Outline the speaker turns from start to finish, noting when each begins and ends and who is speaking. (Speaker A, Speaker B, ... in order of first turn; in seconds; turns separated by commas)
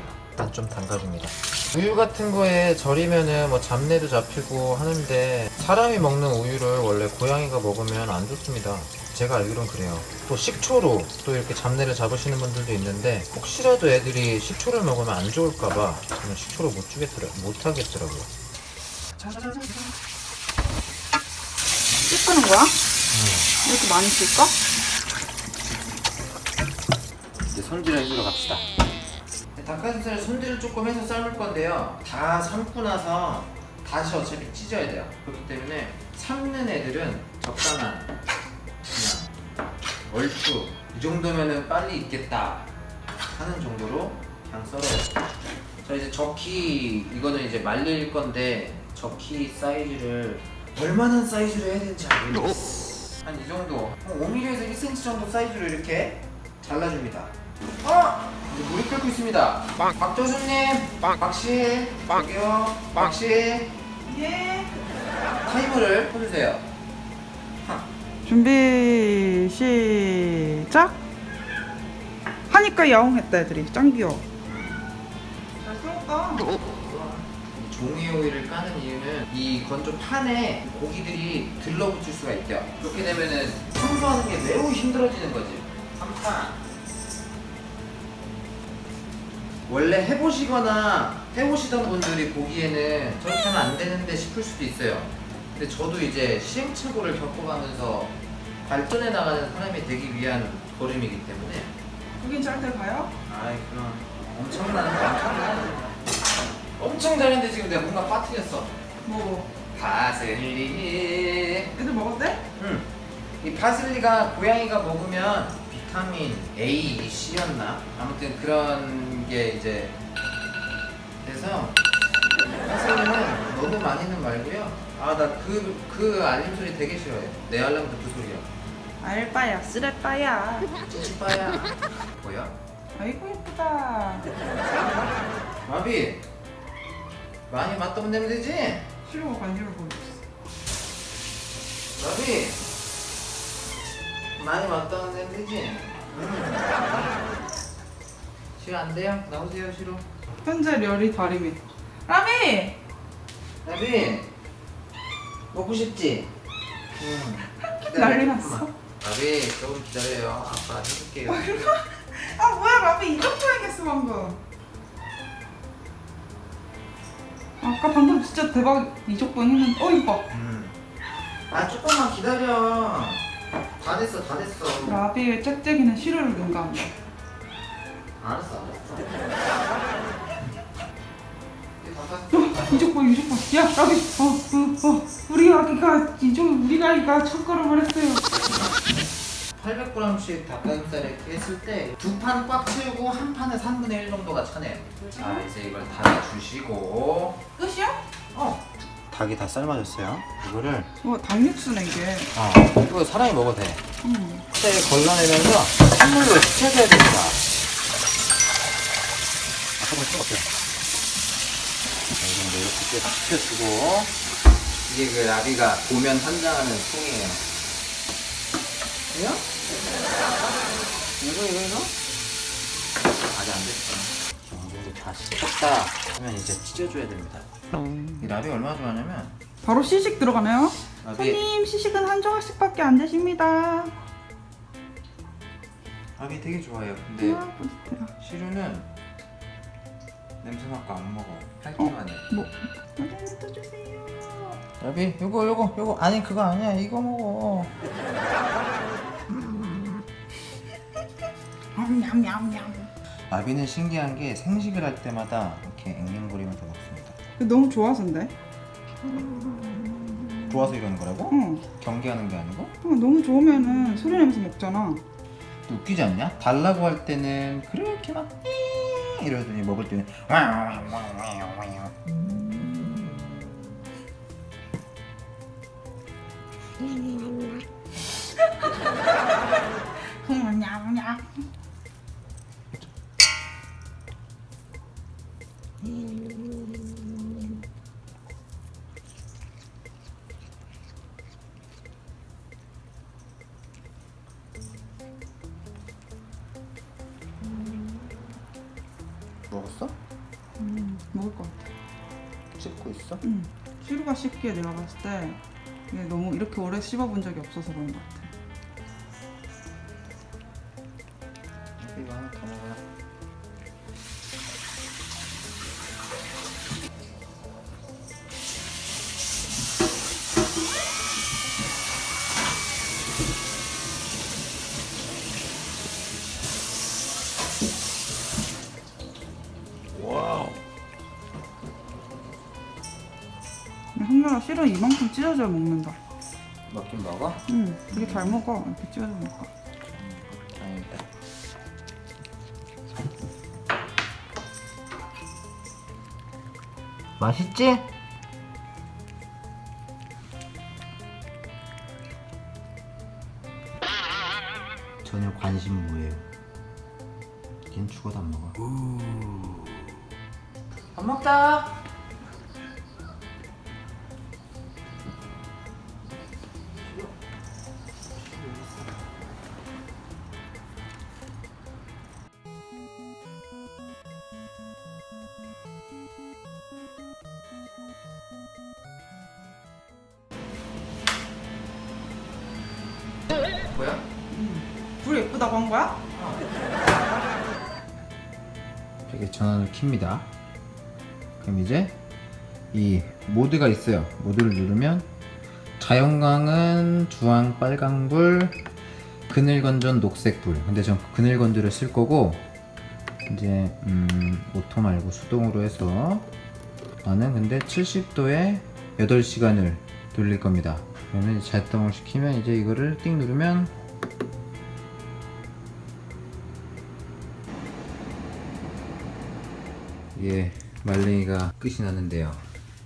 Speaker A: 0.3-18.3, Speaker A: 19.2-19.9, Speaker B: 22.1-22.8, Speaker A: 23.1-23.5, Speaker B: 23.6-24.6, Speaker A: 27.5-28.6, Speaker A: 29.6-38.1, Speaker A: 38.9-39.3, Speaker A: 40.1-42.7, Speaker A: 43.4-45.2, Speaker A: 45.8-63.7, Speaker B: 64.1-64.7, Speaker A: 65.5-66.7, Speaker B: 68.2-71.0, Speaker B: 72.5-74.2, Speaker A: 74.5-74.8, Speaker B: 75.6-76.5, Speaker A: 76.5-86.6, Speaker A: 89.7-98.1, Speaker A: 98.7-101.7, Speaker B: 102.2-103.1, Speaker A: 103.3-106.0, Speaker A: 106.8-108.7, Speaker B: 109.0-109.5, Speaker A: 109.7-111.7, Speaker B: 111.8-112.4, Speaker A: 112.6-112.9, Speaker A: 113.4-120.0, Speaker A: 121.2-121.8, Speaker A: 122.6-128.5, Speaker B: 129.0-130.7, Speaker A: 130.9-132.6, Speaker B: 133.0-134.3, Speaker A: 134.7-135.1, Speaker A: 135.6-136.2, Speaker A: 137.5-138.9, Speaker B: 139.1-140.2, Speaker A: 142.0-142.6, Speaker A: 144.4-147.3, Speaker A: 148.6-150.1, Speaker B: 150.4-152.8, Speaker A: 153.6-154.3, Speaker A: 155.5-156.3, Speaker A: 156.9-161.8, Speaker B: 157.9-158.7, Speaker B: 161.3-164.4, Speaker B: 167.6-170.3, Speaker A: 170.3-170.8, Speaker A: 171.5-173.2, Speaker A: 173.8-175.0, Speaker B: 174.8-176.9, Speaker A: 178.2-179.2, Speaker A: 181.8-182.9, Speaker B: 182.3-188.4, Speaker A: 189.6-197.4, Speaker B: 195.1-195.4, Speaker B: 197.6-198.0, Speaker A: 198.3-200.9, Speaker B: 201.0-202.3, Speaker A: 202.3-203.8, Speaker B: 204.0-204.5, Speaker A: 204.5-207.4, Speaker A: 209.8-210.5, Speaker A: 212.2-214.1, Speaker A: 214.9-217.4, Speaker A: 219.1-219.4, Speaker A: 221.2-221.9, Speaker A: 223.3-227.5, Speaker A: 228.2-229.3, Speaker B: 229.6-233.9, Speaker A: 231.0-231.4, Speaker A: 236.2-237.4, Speaker B: 237.2-238.1, Speaker A: 238.2-238.9, Speaker A: 240.4-242.3, Speaker B: 241.8-244.6, Speaker A: 244.8-247.7, Speaker B: 251.8-252.9, Speaker A: 253.3-257.2, Speaker B: 257.4-258.3, Speaker A: 260.5-262.7, Speaker B: 261.3-261.6, Speaker B: 262.8-265.0, Speaker A: 265.7-271.9, Speaker B: 280.2-281.2, Speaker A: 299.5-299.9, Speaker B: 300.6-301.6, Speaker A: 302.6-303.2, Speaker B: 303.2-305.4, Speaker B: 305.9-308.3, Speaker A: 311.8-312.8, Speaker B: 333.9-336.0, Speaker A: 336.7-338.4, Speaker B: 337.5-339.5, Speaker A: 339.8-341.1, Speaker A: 347.2-347.9, Speaker A: 355.0-356.2, Speaker A: 357.7-358.7, Speaker A: 360.9-361.8, Speaker A: 366.8-367.1, Speaker A: 368.2-368.9, Speaker A: 383.7-384.0, Speaker B: 384.3-386.0, Speaker A: 386.1-386.4, Speaker A: 389.1-390.3, Speaker A: 391.4-391.9, Speaker A: 392.7-395.1, Speaker A: 395.8-398.6, Speaker A: 399.3-402.4, Speaker A: 403.3-406.3, Speaker A: 407.0-413.7, Speaker A: 420.1-422.5